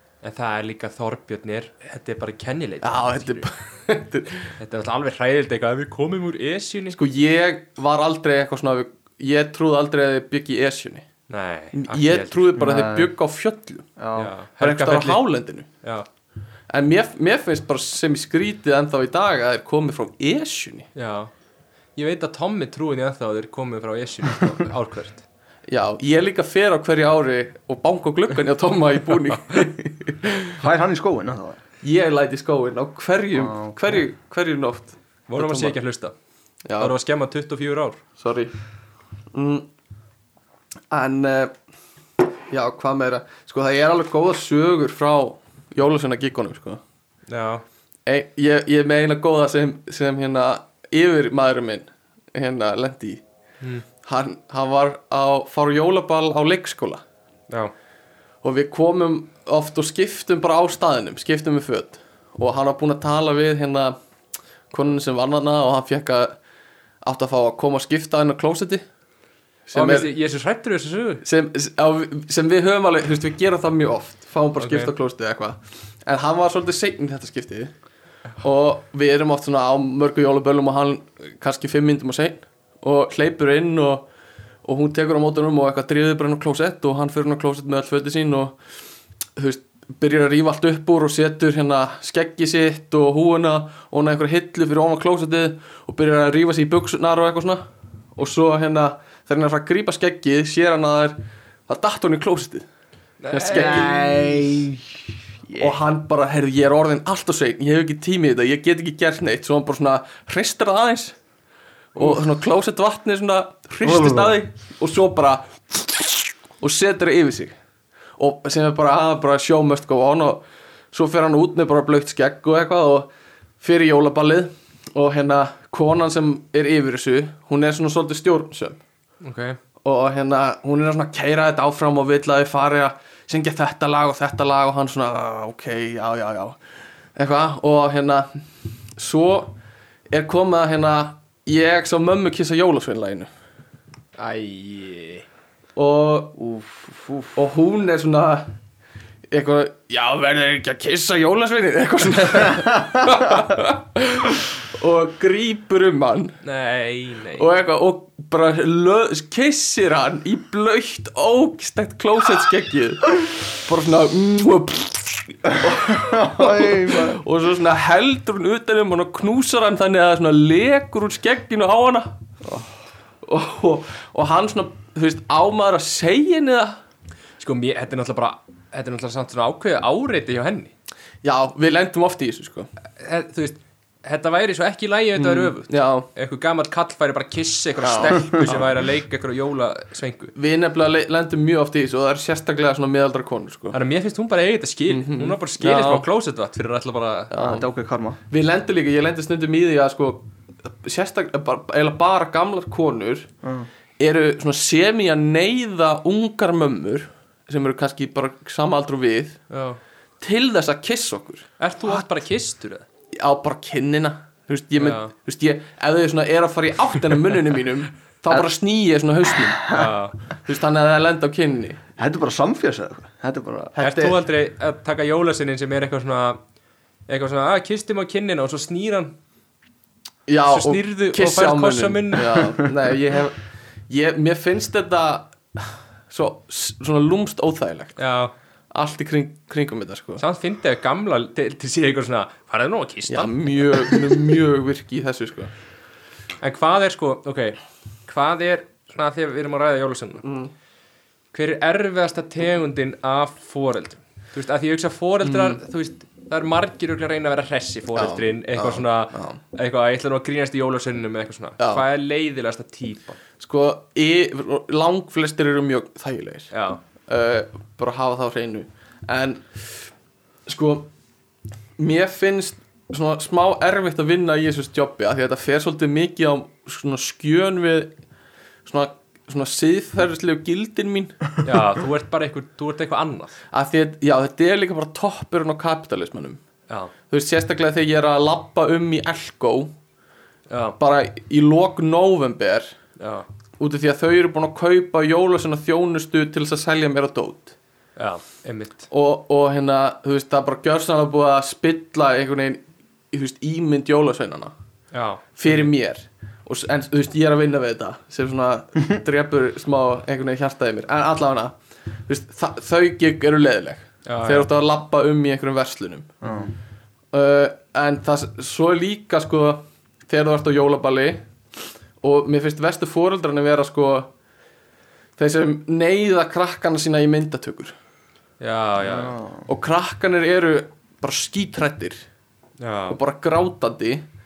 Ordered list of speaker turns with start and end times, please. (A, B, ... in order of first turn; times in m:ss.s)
0:00.2-0:03.5 A
0:02.8-0:04.6 B
0:04.6-0:07.0 A
0:06.9-0:11.0 B
0:11.3-0:12.6 A
0:11.7-0:13.8 B
0:12.5-0:13.1 C
0:14.0-0:14.3 C
0:14.2-0:15.2 A
0:14.6-0:15.7 B
0:15.8-0:16.1 A
0:16.7-0:20.9 B
0:20.9-0:21.3 A
0:22.0-0:25.2 A
0:25.7-0:30.6 B
0:30.6-0:31.6 C
0:31.8-0:35.8 B
0:33.3-0:33.8 C
0:35.3-0:36.1 A
0:36.6-0:36.9 B
0:36.8-0:38.0 A
0:38.2-0:38.5 B
0:39.3-0:39.7 B
0:40.9-0:41.5 B
0:42.5-0:46.8 B
0:47.3-0:47.6 A
0:48.0-0:53.2 B
0:54.0-0:57.0 B
0:58.4-1:04.0 B
1:04.7-1:06.4 B
1:07.0-1:08.8 B
1:09.7-1:10.1 B
1:09.7-1:11.2 A
1:11.2-1:17.7 B
1:14.6-1:14.9 A
1:18.4-1:24.1 B
1:24.6-1:28.6 B
1:29.4-1:37.6 B
1:38.2-1:42.6 B
1:43.2-1:44.1 A
1:43.3-1:44.5 B
1:43.5-1:45.8 C
1:45.6-1:51.2 B
1:51.9-1:57.5 B
1:53.8-1:54.4 C
1:58.2-2:03.1 B
2:03.6-2:08.8 B
2:09.2-2:09.6 A
2:09.8-2:16.6 B
2:17.2-2:18.3 B
2:18.9-2:19.5 B
2:20.1-2:23.3 B
2:24.2-2:25.2 A
2:25.8-2:26.4 B
2:26.4-2:27.4 C
2:27.3-2:28.5 B
2:29.3-2:36.4 B
2:36.4-2:37.5 A
2:37.4-2:52.2 B
2:45.8-2:47.2 C
2:53.2-2:56.8 B
2:57.4-3:00.7 A
3:01.2-3:02.7 B
3:03.0-3:10.3 A
3:05.2-3:06.1 B
3:07.8-3:08.6 B
3:10.4-3:13.8 B
3:13.7-3:17.3 A
3:14.9-3:16.0 B
3:17.3-3:17.7 B
3:17.4-3:18.2 C
3:18.3-3:23.3 B
3:23.4-3:23.7 C
3:24.0-3:29.4 B
3:29.5-3:29.8 A
3:30.2-3:31.5 B
3:31.6-3:32.8 A
3:33.1-3:41.8 B
3:34.8-3:35.1 A
3:39.6-3:39.9 C
3:39.7-3:40.2 A
3:42.0-3:43.8 C
3:43.7-3:44.2 B
3:43.8-3:46.4 A
3:47.1-3:49.1 A
3:50.3-3:58.0 B
3:50.5-3:52.6 A
3:58.0-3:58.3 A
3:58.7-4:00.2 B
4:00.2-4:04.0 A
4:03.1-4:05.5 B
4:06.4-4:10.2 A
4:10.2-4:10.5 B
4:11.3-4:23.2 A
4:15.2-4:15.6 B
4:17.9-4:19.4 B
4:21.6-4:21.8 B
4:23.4-4:26.5 B
4:26.5-4:26.8 A
4:27.1-4:29.9 B
4:30.4-4:30.9 B
4:31.8-4:37.9 B
4:38.6-4:41.4 B
4:41.4-4:43.4 A
4:43.5-4:46.4 B
4:47.1-4:49.7 B
4:50.5-4:50.8 A
4:50.8-4:52.7 B
4:53.0-4:53.2 A
4:53.6-4:57.5 B
4:58.0-4:58.9 A
4:58.9-5:02.6 B
5:03.1-5:04.5 B
5:04.9-5:05.7 A
5:05.4-5:11.5 B
5:12.1-5:16.1 B
5:14.0-5:14.5 A
5:16.2-5:16.5 C
5:17.1-5:21.2 B
5:22.0-5:24.1 B
5:25.2-5:27.7 B
5:28.4-5:29.2 A
5:28.8-5:29.4 C
5:29.5-5:32.0 B
5:32.6-5:33.0 A
5:32.9-5:34.0 B